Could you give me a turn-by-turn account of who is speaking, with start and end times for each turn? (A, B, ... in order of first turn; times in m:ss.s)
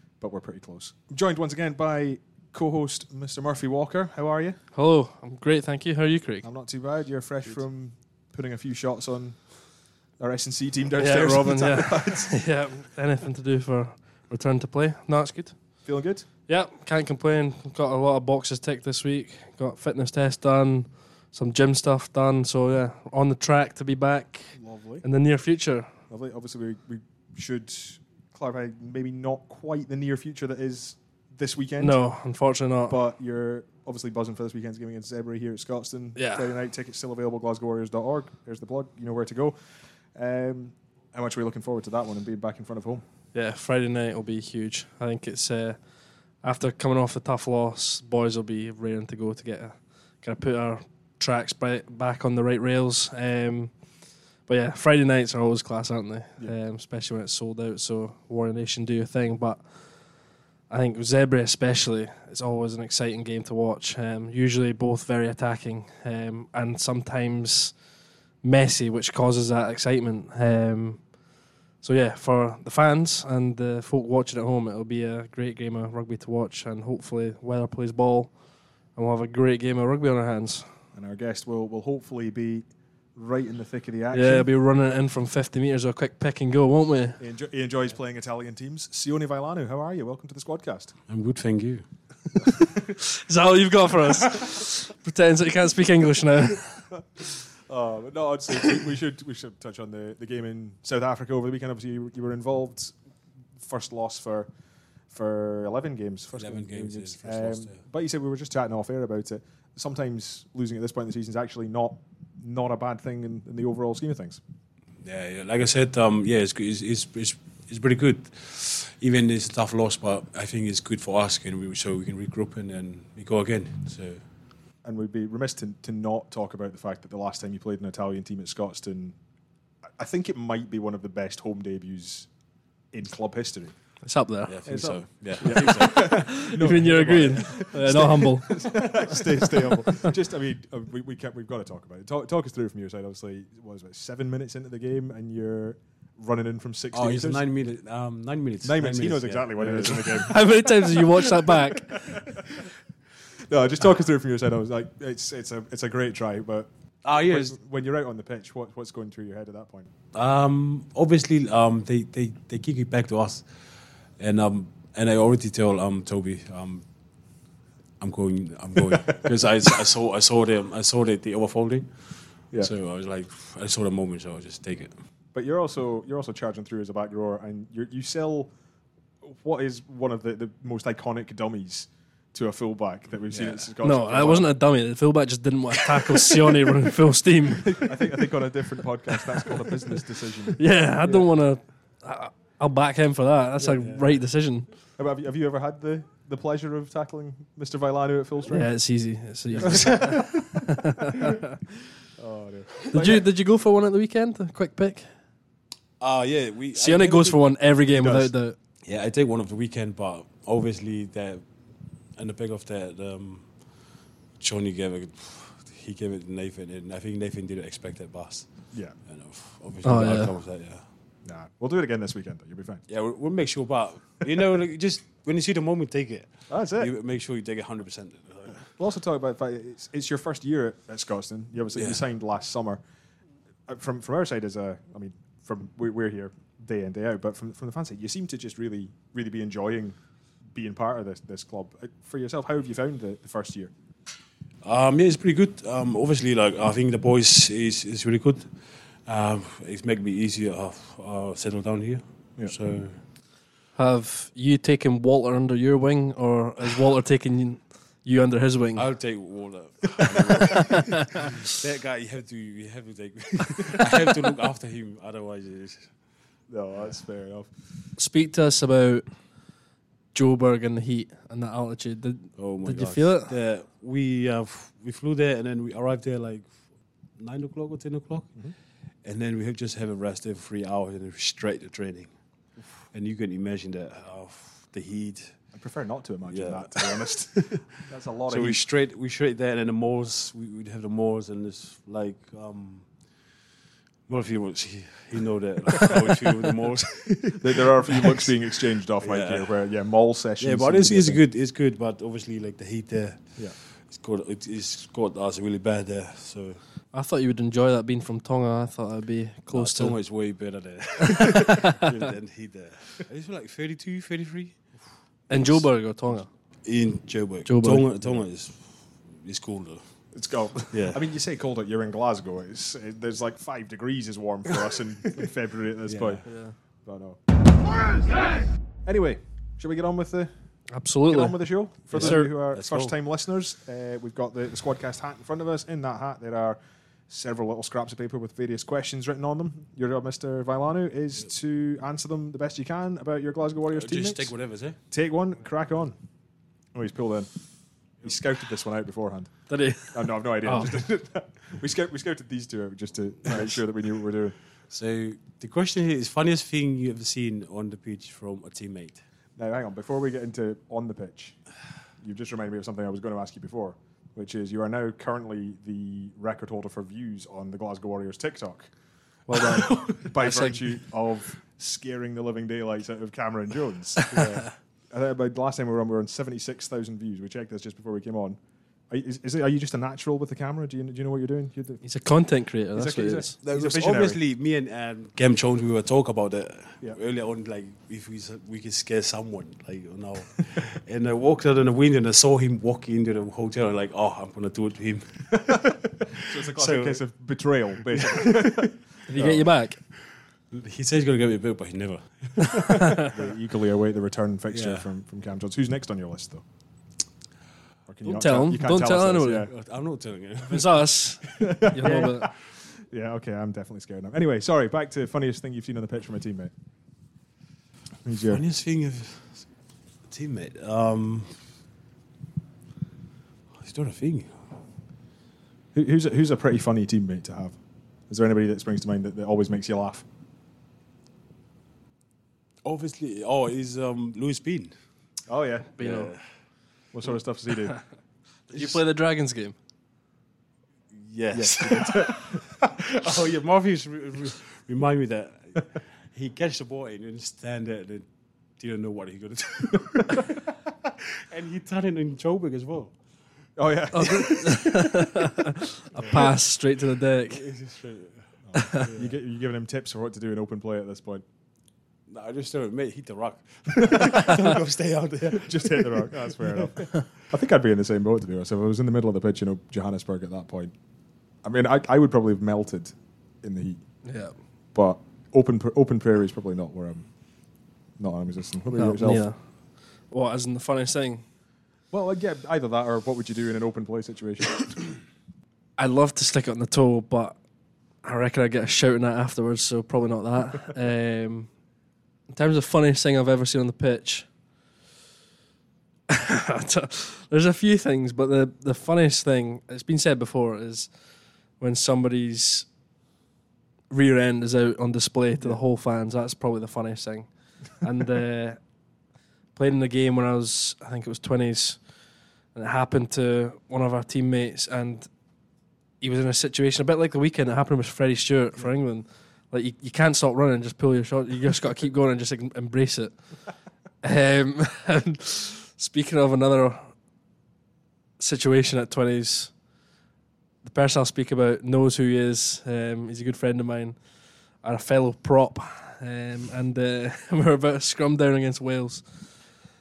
0:00.2-0:04.6 A
0:04.7-0:06.4 B
0:06.4-0:09.6 A
0:10.2-0:12.4 A
0:11.0-0:15.8 B
0:15.8-0:16.2 A
0:16.5-0:25.9 B
0:24.5-0:25.0 A
0:26.1-0:32.0 A
0:31.8-0:33.0 B
0:32.9-0:43.0 A
0:36.1-0:36.5 B
0:43.3-0:45.8 B
0:46.4-0:53.7 B
0:54.4-1:07.8 B
1:08.4-1:11.1 B
1:11.8-1:18.4 B
1:18.9-1:20.7 B
1:20.9-1:24.5 A
1:24.1-1:27.2 B
1:27.2-1:30.9 A
1:31.1-1:31.8 C
1:33.0-1:36.9 B
1:37.3-1:43.0 A
1:43.6-1:44.5 A
1:45.1-1:54.4 A
1:46.3-1:47.8 C
1:55.0-2:04.2 C
2:04.8-2:09.2 A
2:10.0-2:12.3 A
2:12.9-2:13.7 A
2:14.0-2:14.6 B
2:14.5-2:16.3 C
2:14.6-2:27.4 A
2:15.4-2:18.6 B
2:26.9-2:30.4 C
2:28.6-2:32.7 A
2:30.2-2:32.0 B
2:33.5-2:39.9 A
2:37.0-2:37.6 C
2:40.1-2:43.4 C
2:44.2-2:46.8 C
2:48.0-2:54.9 C
2:48.8-2:49.2 A
2:55.3-2:58.5 A
2:59.2-3:04.5 A
3:03.3-3:03.6 C
3:03.8-3:08.2 B
3:07.6-3:11.3 A
3:10.6-3:14.7 B
3:13.8-3:14.1 C
3:15.0-3:18.7 A
3:18.5-3:21.5 B
3:19.5-3:19.8 C
3:19.5-3:20.7 A
3:22.2-3:23.2 A
3:22.9-3:25.1 B
3:26.0-3:27.4 C
3:26.7-3:28.6 B
3:28.0-3:28.3 A
3:28.8-3:31.4 C
3:32.2-3:33.6 C
3:34.4-3:38.5 C
3:39.0-3:40.8 C
3:39.8-3:40.3 B
3:41.2-3:42.8 A
3:42.9-3:48.7 C
3:46.5-3:46.9 A
3:48.8-3:52.8 A
3:51.7-3:52.0 C
3:53.7-4:00.0 A
4:00.5-4:03.7 A
4:04.6-4:08.5 C
4:09.0-4:13.0 C
4:13.7-4:18.8 B
4:18.8-4:25.9 C
4:20.6-4:21.2 B
4:26.5-4:27.5 A
4:28.0-4:29.0 B
4:30.1-4:33.3 B
4:32.4-4:36.5 C
4:37.2-4:38.3 C
4:39.0-4:42.1 C
4:42.9-4:45.4 C
4:45.5-4:48.6 A
4:46.3-4:47.8 C
4:48.3-4:52.9 C
4:54.1-4:58.3 C
4:57.4-5:01.2 A
4:59.0-4:59.5 C
5:00.4-5:06.6 C
5:06.9-5:10.0 B
5:09.5-5:14.8 C
5:11.0-5:11.9 B
5:15.3-5:15.6 C
5:15.3-5:16.3 B
5:16.6-5:19.8 C
5:17.4-5:17.8 B
5:20.1-5:26.2 A
5:20.7-5:21.0 C
5:25.8-5:26.2 C
5:26.2-5:26.5 B
5:26.8-5:27.2 A
5:28.8-5:30.3 A
5:30.7-5:32.3 B
5:31.1-5:36.6 A
5:31.9-5:32.9 C
5:37.1-5:44.3 A
5:43.7-5:44.8 C
5:44.9-5:45.9 A
5:46.7-5:47.3 A
5:48.0-5:54.3 A
5:49.5-5:50.8 B
5:54.7-5:59.0 C
5:59.4-6:01.4 A
6:02.0-6:08.7 A
6:09.3-6:10.7 B
6:09.3-6:18.4 A
6:14.1-6:14.4 C
6:18.9-6:21.8 A
6:21.8-6:23.3 B
6:22.7-6:24.2 A
6:23.4-6:37.0 C
6:36.2-6:39.5 A
6:37.9-6:38.7 C
6:39.1-6:39.8 B
6:40.5-6:43.0 C
6:42.6-6:43.1 B
6:43.0-6:46.4 A
6:44.5-6:44.9 C
6:47.9-6:49.5 A
6:48.0-6:49.5 B
6:49.5-6:51.3 C
6:50.5-6:52.3 B
6:51.4-6:56.5 A
6:58.0-6:58.4 A
6:58.2-6:59.5 C
7:00.1-7:01.4 C
7:03.6-7:04.3 C
7:05.7-7:07.6 A
7:08.1-7:10.0 A
7:12.6-7:14.7 C
7:15.3-7:15.8 A
7:15.8-7:16.1 B
7:15.8-7:16.2 C
7:16.9-7:17.8 A
7:18.5-7:19.5 B
7:20.9-7:28.0 C
7:21.3-7:22.7 A
7:28.6-7:30.5 C
7:31.3-7:32.9 C
7:33.6-7:34.8 A
7:33.9-7:37.4 B
7:36.0-7:36.3 C
7:37.3-7:39.1 C
7:38.5-7:41.2 A
7:38.5-7:38.9 B
7:42.1-7:47.0 C
7:43.8-7:44.4 A
7:45.3-7:50.7 A
7:51.4-7:53.8 A
7:54.0-7:54.4 B
7:54.7-7:57.1 A
7:58.0-7:59.3 A
7:58.7-7:59.4 B
8:00.1-8:01.2 B
8:01.9-8:04.9 A
8:05.8-8:07.4 B
8:08.0-8:11.5 B
8:12.3-8:14.3 B
8:16.1-8:20.9 B
8:21.6-8:22.7 B
8:23.9-8:28.6 B
8:29.5-8:31.8 B
8:32.5-8:35.1 B
8:36.0-8:43.3 B
8:44.0-8:46.9 B
8:48.2-8:49.5 B
8:50.6-8:54.0 B
8:54.6-8:59.4 B